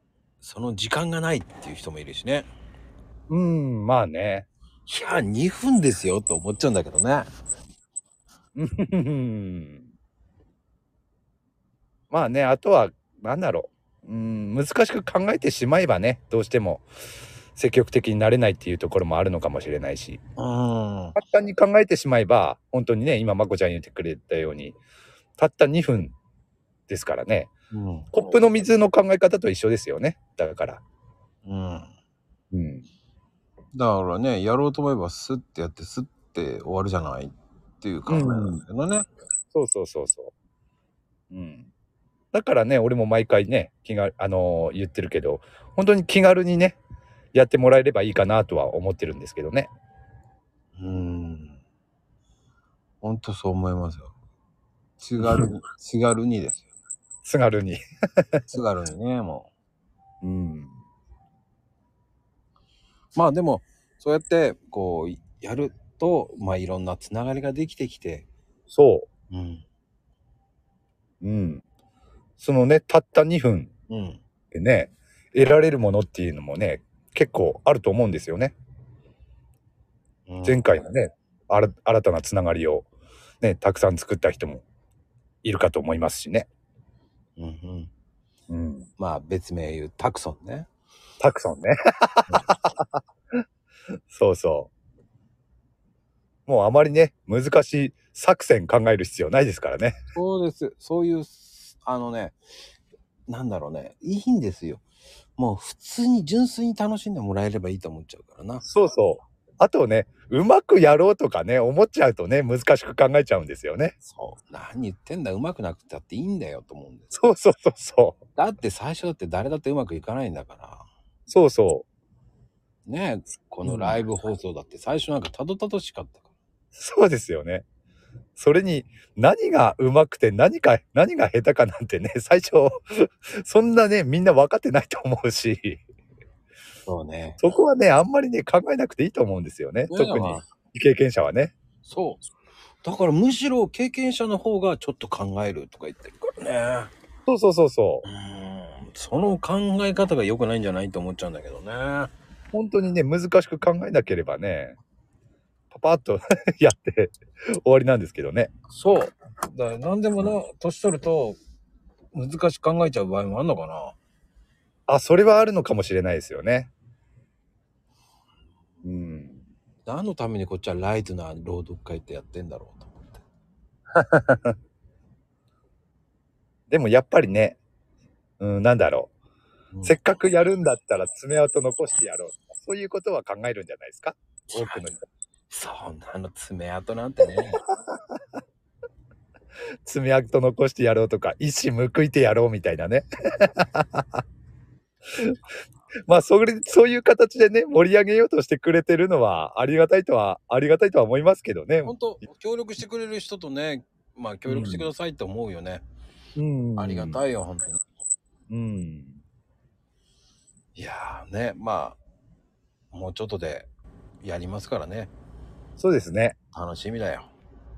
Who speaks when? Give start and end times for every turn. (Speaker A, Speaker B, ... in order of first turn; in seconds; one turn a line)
Speaker A: 0.4-2.5
Speaker B: 3.3-4.5
Speaker A: 4.9-7.3
Speaker B: 8.6-9.9
Speaker B: 12.1-16.9
Speaker B: 17.6-20.2
Speaker A: 20.4-21.2
Speaker B: 21.2-24.8
Speaker B: 25.4-26.1
Speaker B: 26.9-27.5
Speaker A: 27.7-28.1
Speaker B: 28.1-30.8
Speaker A: 31.4-31.9
Speaker B: 32.5-32.9
Speaker A: 33.7-39.1
Speaker B: 38.1-38.6
Speaker B: 39.5-40.3
Speaker B: 41.3-41.7
Speaker B: 42.3-46.8
Speaker B: 47.3-49.7
Speaker A: 50.8-51.6
Speaker A: 53.0-54.1
Speaker A: 55.0-56.7
Speaker B: 55.2-55.5
Speaker B: 57.2-57.8
Speaker A: 58.5-59.5
Speaker B: 60.2-60.7
Speaker A: 63.2-68.3
Speaker B: 68.7-69.1
Speaker A: 69.3-69.7
Speaker B: 71.2-71.6
Speaker B: 72.4-73.7
Speaker A: 73.9-74.2
Speaker B: 74.5-78.6
Speaker A: 80.3-80.8
Speaker B: 80.4-82.9
Speaker B: 83.4-84.6
Speaker B: 85.4-86.5
Speaker A: 87.4-87.9
Speaker B: 88.5-88.9
Speaker A: 89.0-90.7
Speaker B: 91.2-93.4
Speaker B: 94.1-94.7
Speaker B: 96.5-100.0
Speaker A: 100.2-102.4
Speaker A: 103.3-104.8
Speaker A: 105.4-108.7
Speaker B: 108.6-113.9
Speaker A: 114.0-117.1
Speaker B: 117.1-118.2
Speaker A: 118.4-120.8
Speaker B: 121.3-121.9
Speaker A: 122.9-126.3
Speaker B: 123.6-124.0
Speaker B: 126.8-127.6
Speaker B: 128.4-135.8
Speaker A: 136.9-137.4
Speaker B: 137.4-141.5
Speaker A: 139.9-140.4
Speaker A: 141.8-142.2
Speaker A: 142.8-146.9
Speaker B: 147.3-148.1
Speaker A: 148.1-152.1
Speaker B: 152.5-154.8
Speaker B: 155.7-158.5
Speaker A: 158.7-161.4
Speaker A: 162.1-164.0
Speaker B: 164.9-166.7
Speaker B: 168.8-169.4
Speaker A: 169.9-173.2
Speaker B: 173.9-174.6
Speaker B: 176.7-177.6
Speaker B: 178.4-179.1
Speaker A: 179.7-180.0
Speaker B: 179.8-185.0
Speaker A: 184.5-184.9
Speaker A: 185.5-187.6
Speaker B: 187.7-188.0
Speaker B: 189.8-194.2
Speaker B: 196.1-202.0
Speaker A: 201.9-205.8
Speaker B: 204.5-204.9
Speaker B: 206.4-207.2
Speaker A: 206.8-207.8
Speaker B: 208.5-209.2
Speaker A: 210.8-212.0
Speaker A: 212.9-213.7
Speaker A: 214.2-215.1
Speaker B: 215.8-216.4
Speaker A: 216.5-217.3